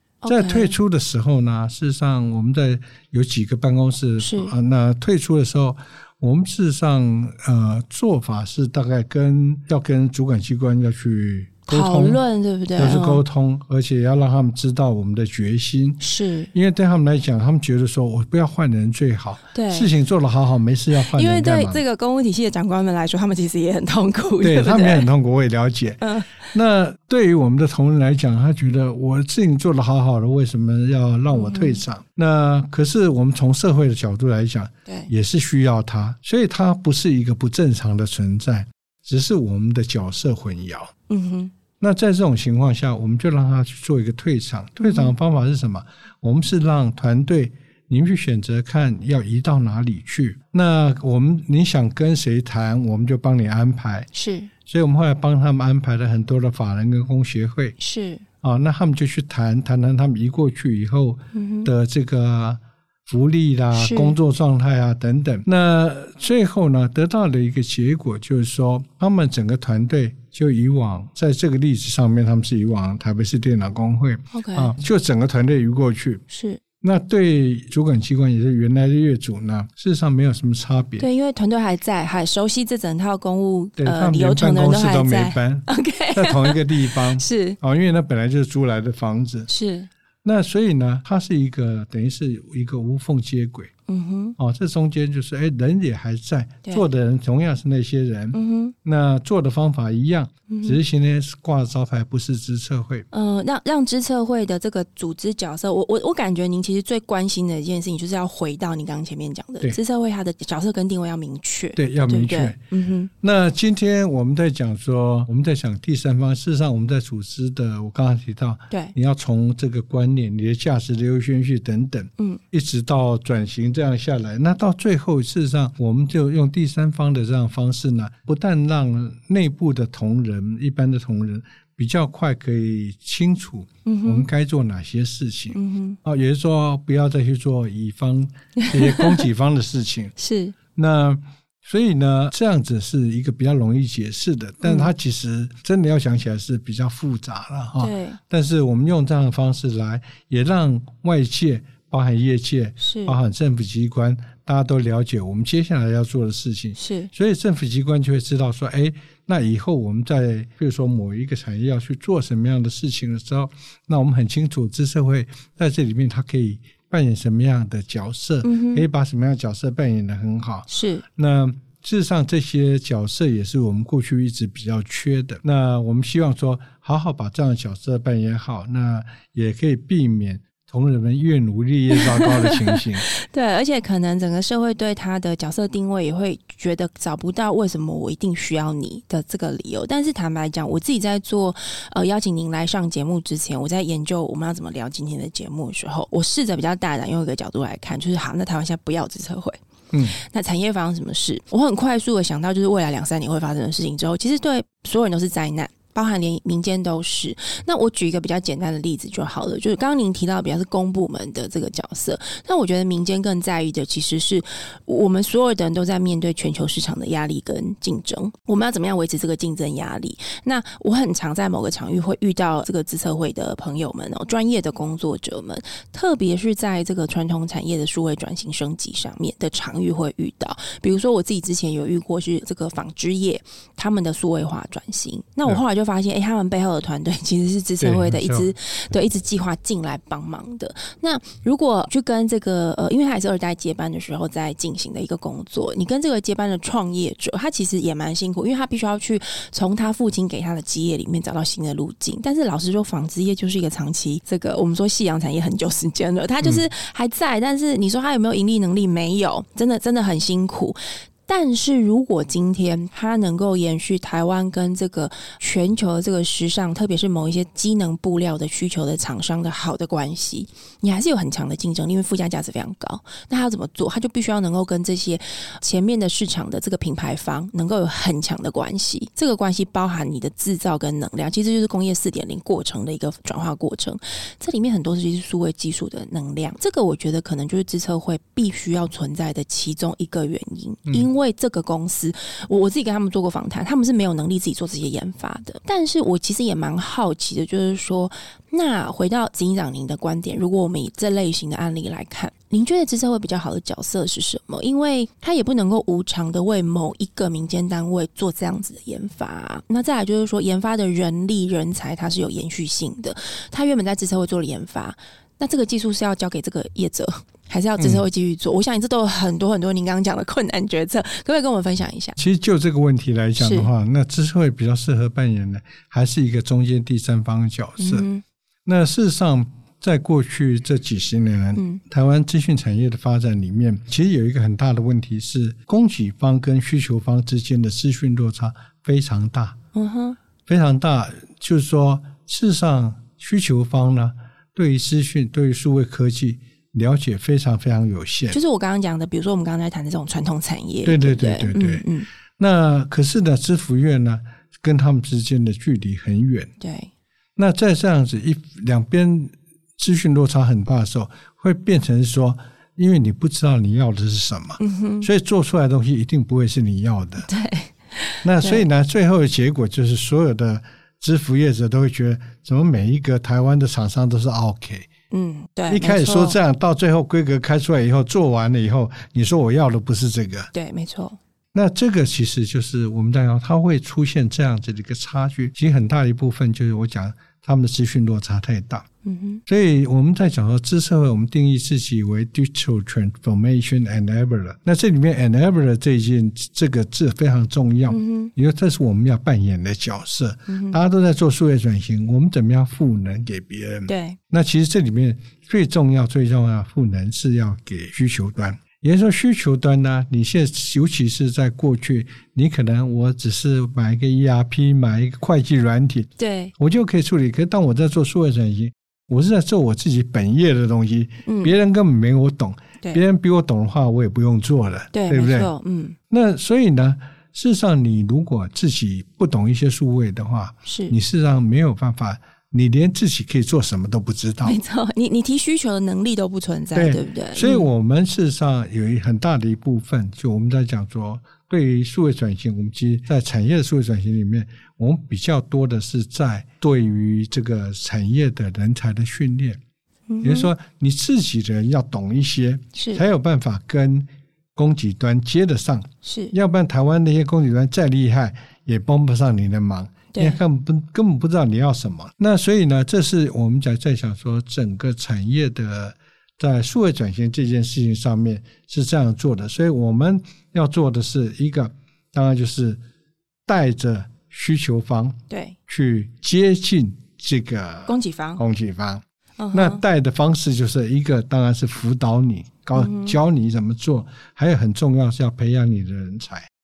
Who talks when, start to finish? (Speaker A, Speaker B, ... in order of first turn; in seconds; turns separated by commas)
Speaker A: 0.2-0.8, Speaker B: 0.3-12.2, Speaker A: 4.2-4.5, Speaker A: 11.7-13.2, Speaker B: 12.8-16.0, Speaker A: 16.0-16.5, Speaker B: 16.5-21.8, Speaker A: 19.5-19.9, Speaker A: 21.0-25.1, Speaker B: 24.4-40.9, Speaker A: 26.0-26.5, Speaker A: 31.3-31.8, Speaker A: 41.1-41.5, Speaker B: 41.8-54.1, Speaker A: 44.8-45.1, Speaker A: 54.1-54.5, Speaker B: 54.6-57.8, Speaker A: 57.8-58.2, Speaker B: 58.4-76.2, Speaker A: 61.3-61.7, Speaker A: 63.7-64.2, Speaker A: 74.3-74.7, Speaker A: 76.3-76.6, Speaker B: 76.8-81.0, Speaker A: 81.0-87.6, Speaker B: 83.8-89.5, Speaker A: 89.5-89.9, Speaker B: 90.2-93.7, Speaker A: 93.9-94.3, Speaker B: 94.4-103.1, Speaker A: 98.3-98.7, Speaker A: 100.5-100.8, Speaker A: 103.1-113.1, Speaker B: 111.8-112.6, Speaker B: 113.2-140.1, Speaker A: 133.8-134.3, Speaker A: 135.5-136.0, Speaker A: 138.6-139.2, Speaker A: 140.2-140.6, Speaker B: 140.7-183.1, Speaker A: 144.6-144.9, Speaker A: 147.8-148.2, Speaker A: 152.8-153.2, Speaker A: 156.8-157.1, Speaker A: 168.4-168.8, Speaker A: 170.7-171.0, Speaker A: 181.9-322.2, Speaker B: 199.9-200.2, Speaker B: 237.8-238.5, Speaker B: 317.8-318.0, Speaker B: 322.2-328.1, Speaker A: 323.4-323.7, Speaker A: 327.8-328.2, Speaker B: 328.6-339.6, Speaker A: 331.6-331.8, Speaker A: 339.7-340.2, Speaker B: 340.4-348.4, Speaker A: 348.3-352.1, Speaker B: 350.8-351.9, Speaker B: 352.4-356.5, Speaker A: 356.6-356.9, Speaker B: 357.4-367.3, Speaker A: 364.6-365.1, Speaker A: 367.3-368.6, Speaker B: 368.2-374.9, Speaker A: 375.1-376.4, Speaker B: 375.7-380.5, Speaker A: 380.5-381.2, Speaker B: 381.5-388.9, Speaker A: 389.0-389.4, Speaker B: 389.5-425.5, Speaker A: 397.9-398.3, Speaker A: 400.5-400.8, Speaker A: 403.9-404.2, Speaker A: 416.2-416.5, Speaker A: 421.2-421.5, Speaker A: 424.9-426.0, Speaker B: 426.1-434.6, Speaker A: 430.6-430.9, Speaker A: 434.4-437.7, Speaker B: 436.7-449.6, Speaker A: 450.1-450.5, Speaker B: 450.2-472.8, Speaker A: 452.7-453.0, Speaker A: 456.0-456.3, Speaker A: 460.1-460.4, Speaker B: 473.5-486.5, Speaker A: 475.3-475.6, Speaker A: 477.9-478.4, Speaker A: 479.4-479.8, Speaker A: 482.7-483.2